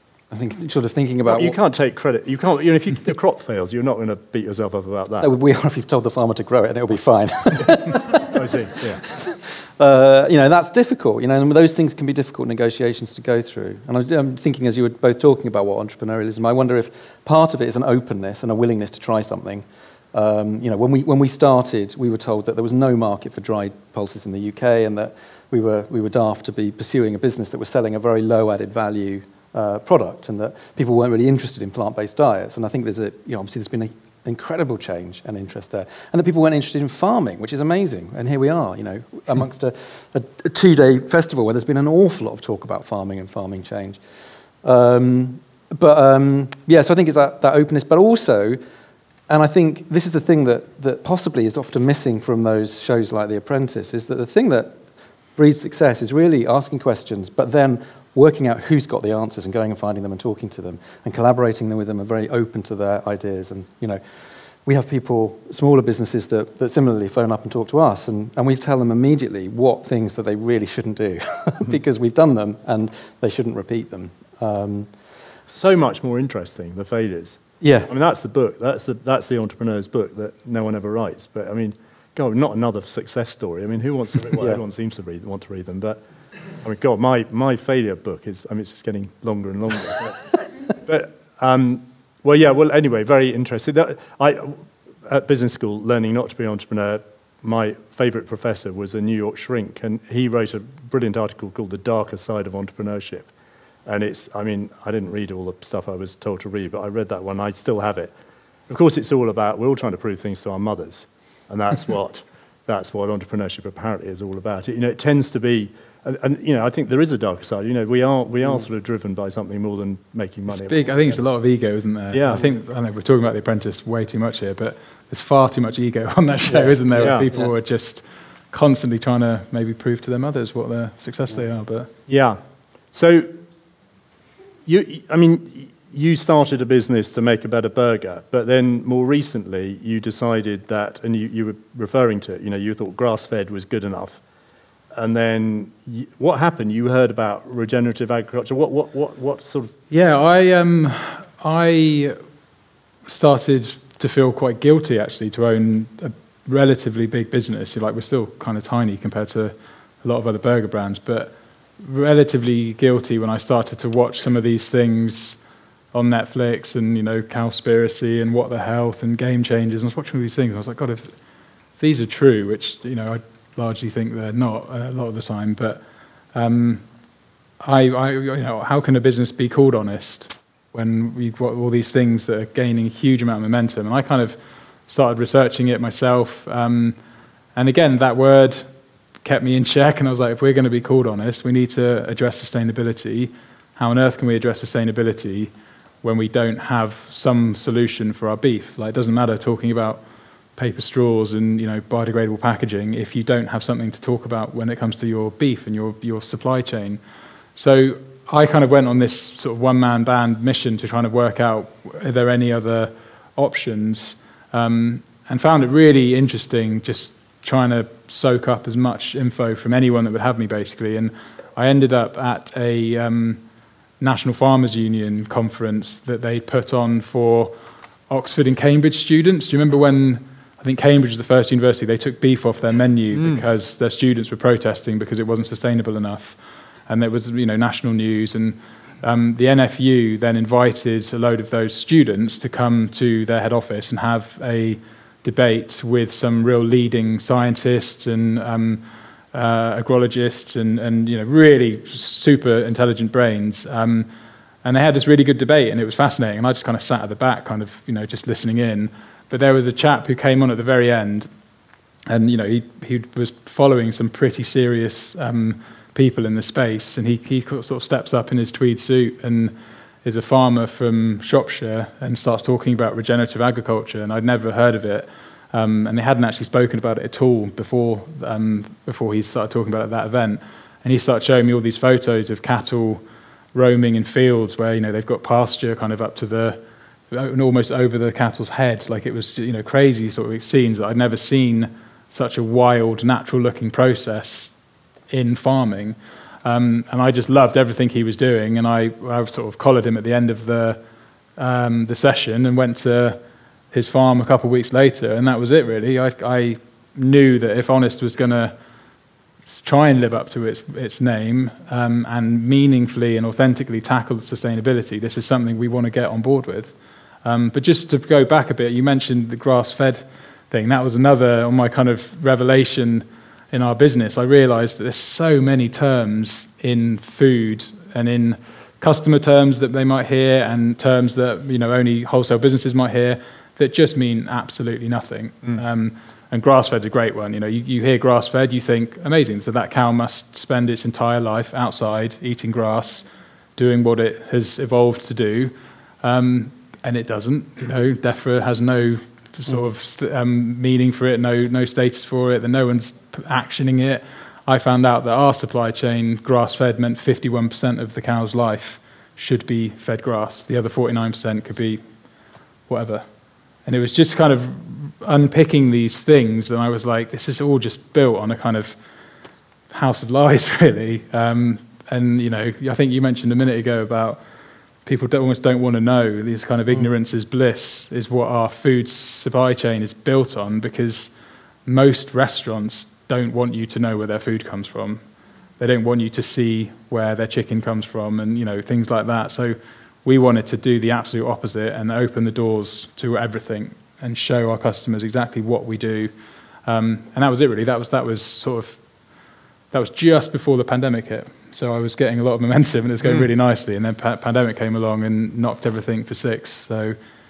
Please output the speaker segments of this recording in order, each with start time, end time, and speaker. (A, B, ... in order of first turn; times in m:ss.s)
0:00.3-0:01.6 A
0:01.2-0:05.3 B
0:05.2-0:44.0 A
0:07.6-0:09.0 B
0:44.6-0:48.6 A
0:49.3-0:54.8 A
0:55.4-1:04.0 A
1:04.6-1:14.9 A
1:15.5-1:26.0 B
1:17.6-1:17.9 A
1:24.4-1:24.6 A
1:26.6-1:43.3 B
1:43.8-1:48.1 B
1:48.7-2:01.2 B
2:00.5-2:11.9 C
2:02.1-2:02.4 B
2:06.5-2:07.5 A
2:07.0-2:07.2 B
2:12.1-2:12.4 B
2:12.9-2:13.3 B
2:14.6-2:24.2 B
2:24.9-2:29.7 B
2:29.9-2:32.2 C
2:33.1-2:45.4 C
2:45.9-2:51.1 C
2:51.8-2:55.8 C
2:56.3-2:56.8 C
2:57.6-3:04.4 C
3:04.9-3:07.0 C
3:07.6-3:08.6 C
3:09.2-3:15.5 C
3:16.0-3:20.0 C
3:20.6-3:27.0 C
3:27.6-3:43.4 C
3:44.0-3:47.5 C
3:48.1-4:14.1 C
3:53.1-3:53.4 B
4:14.6-4:21.3 C
4:22.1-4:29.5 C
4:30.0-4:43.0 C
4:43.5-4:46.6 C
4:47.1-4:54.5 C
4:55.1-5:00.8 C
5:01.4-5:03.2 C
5:03.7-5:08.5 C
5:09.5-5:43.0 C
5:43.6-6:01.8 C
6:02.7-6:03.1 C
6:03.6-6:08.8 C
6:09.7-6:14.2 C
6:14.8-6:21.1 C
6:21.6-6:25.0 C
6:25.6-6:36.1 C
6:36.6-6:38.8 C
6:39.7-6:47.0 C
6:43.0-6:43.3 B